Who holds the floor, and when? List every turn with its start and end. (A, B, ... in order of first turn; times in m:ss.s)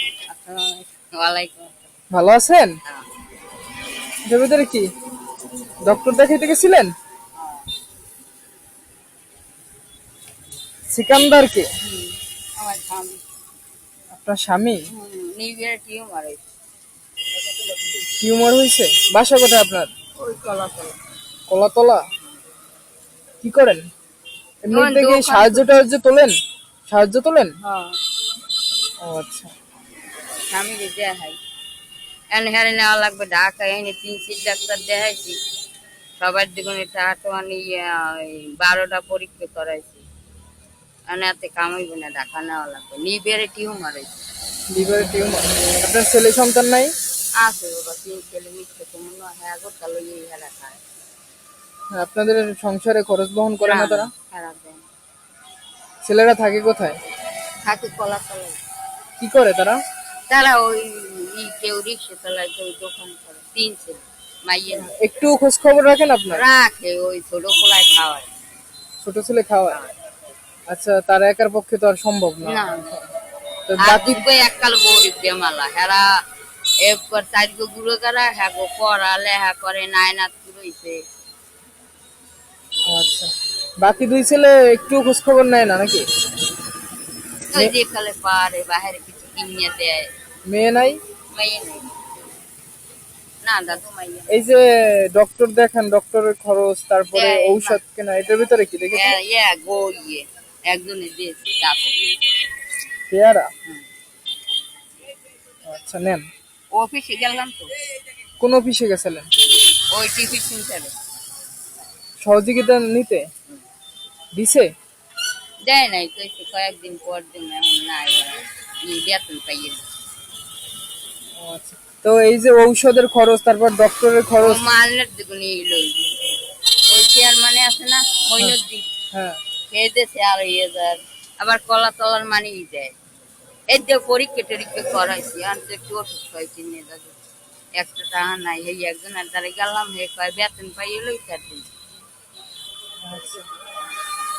0:00.3-0:01.8 A
0:02.1-0:02.7 B
0:04.2-0:04.9 B
0:05.8-0:06.9 B
0:07.4-0:07.6 A
0:10.9-0:11.7 B
0:11.8-0:13.2 A
0:14.1-0:14.8 B
0:14.9-0:16.4 A
0:18.2-0:19.9 B
0:20.2-0:21.0 A
0:21.5-0:22.0 B
0:23.4-0:23.8 B
0:24.6-0:26.3 B
0:24.7-0:25.7 A
0:26.9-0:27.5 B
0:27.6-0:28.0 A
0:29.0-0:29.5 B
0:30.5-0:31.4 A
0:32.3-0:35.4 A
0:36.2-0:40.0 A
0:41.1-0:44.1 A
0:44.7-0:46.9 B
0:47.4-0:50.8 A
0:51.9-0:54.1 B
0:53.6-0:54.8 A
0:56.0-0:57.0 B
0:57.6-0:58.6 A
0:59.2-0:59.8 B
1:00.3-1:04.9 A
1:04.8-1:06.4 B
1:06.3-1:08.3 A
1:09.0-1:09.8 B
1:10.7-1:13.0 B
1:12.4-1:13.0 A
1:13.7-1:14.2 B
1:13.8-1:16.1 A
1:16.8-1:21.0 A
1:22.9-1:26.0 B
1:27.5-1:30.1 A
1:30.5-1:31.0 B
1:31.3-1:31.9 A
1:33.4-1:34.5 A
1:34.3-1:39.2 B
1:37.1-1:37.8 A
1:38.9-1:42.2 A
1:43.1-1:43.5 B
1:45.6-1:46.2 B
1:46.7-1:47.7 A
1:48.4-1:49.3 B
1:49.9-1:50.9 A
1:52.2-1:53.3 B
1:54.3-1:54.7 B
1:55.6-1:59.8 A
2:01.4-2:04.6 B
2:04.4-2:06.0 A
2:06.9-2:08.9 A
2:09.7-2:12.9 A
2:13.7-2:17.1 A
2:17.8-2:21.7 A
2:23.0-2:23.4 B